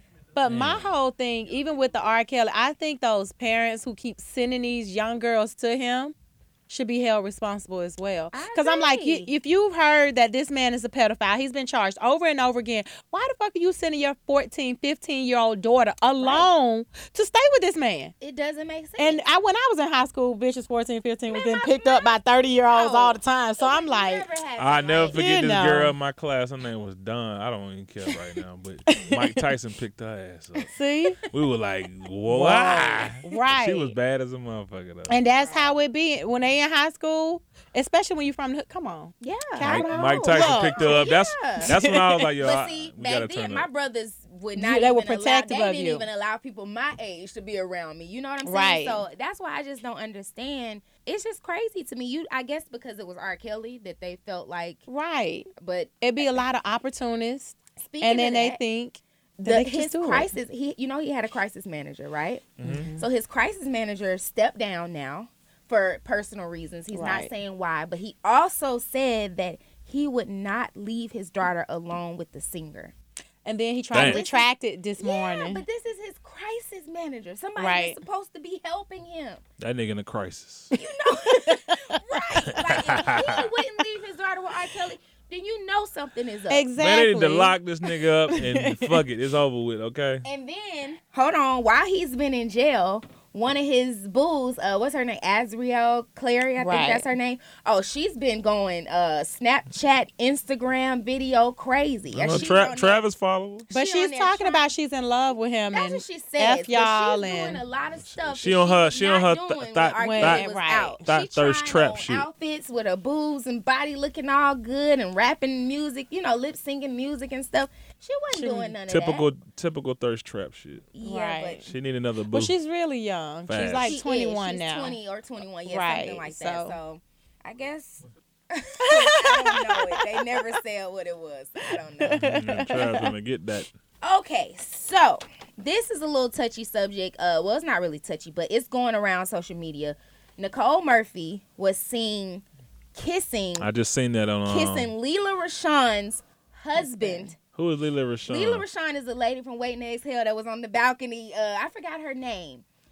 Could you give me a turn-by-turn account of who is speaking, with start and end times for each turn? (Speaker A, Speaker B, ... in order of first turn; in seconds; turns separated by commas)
Speaker A: 0.3-6.1, Speaker B: 0.4-0.9, Speaker A: 6.7-18.1, Speaker C: 8.3-9.3, Speaker C: 16.2-16.5, Speaker C: 18.2-19.2, Speaker A: 19.0-24.3, Speaker C: 21.3-25.2, Speaker B: 24.6-30.7, Speaker A: 25.1-25.9, Speaker A: 28.9-29.5, Speaker A: 30.7-31.3, Speaker B: 31.3-35.1, Speaker A: 32.3-33.9, Speaker A: 35.1-41.1, Speaker C: 35.3-35.7, Speaker C: 39.2-41.7, Speaker B: 39.6-43.7, Speaker A: 41.6-42.3, Speaker C: 42.4-54.8, Speaker A: 44.5-46.0, Speaker A: 48.4-49.0, Speaker A: 54.9-55.5, Speaker C: 55.6-56.4, Speaker A: 56.0-60.3, Speaker C: 57.8-58.6, Speaker C: 59.4-72.9, Speaker B: 62.6-62.9, Speaker A: 62.6-63.0, Speaker A: 66.9-67.3, Speaker A: 73.4-75.6, Speaker B: 73.9-74.2, Speaker C: 74.0-74.5, Speaker C: 75.0-79.4, Speaker A: 77.6-78.0, Speaker B: 79.6-80.7, Speaker C: 80.7-86.7, Speaker A: 81.2-83.1, Speaker B: 82.5-83.5, Speaker A: 86.5-89.0, Speaker B: 86.8-90.2, Speaker C: 90.2-103.0, Speaker A: 96.6-97.0, Speaker B: 102.1-103.7, Speaker A: 102.2-102.5, Speaker C: 103.7-104.7, Speaker A: 103.7-107.6, Speaker C: 105.7-119.3, Speaker B: 108.0-110.5, Speaker A: 110.0-111.0, Speaker B: 111.0-112.3, Speaker A: 118.3-118.8, Speaker B: 118.9-120.9, Speaker C: 120.9-121.7, Speaker A: 121.0-121.7, Speaker B: 121.6-122.5, Speaker A: 122.3-125.0, Speaker B: 123.5-124.0, Speaker C: 123.8-132.2, Speaker A: 125.7-126.8, Speaker A: 128.8-130.2, Speaker A: 131.7-133.1, Speaker B: 132.1-133.7, Speaker C: 134.0-142.4, Speaker C: 142.9-143.7, Speaker B: 143.6-144.9, Speaker C: 144.4-147.3, Speaker A: 146.8-147.3, Speaker B: 147.5-148.6, Speaker C: 148.3-152.6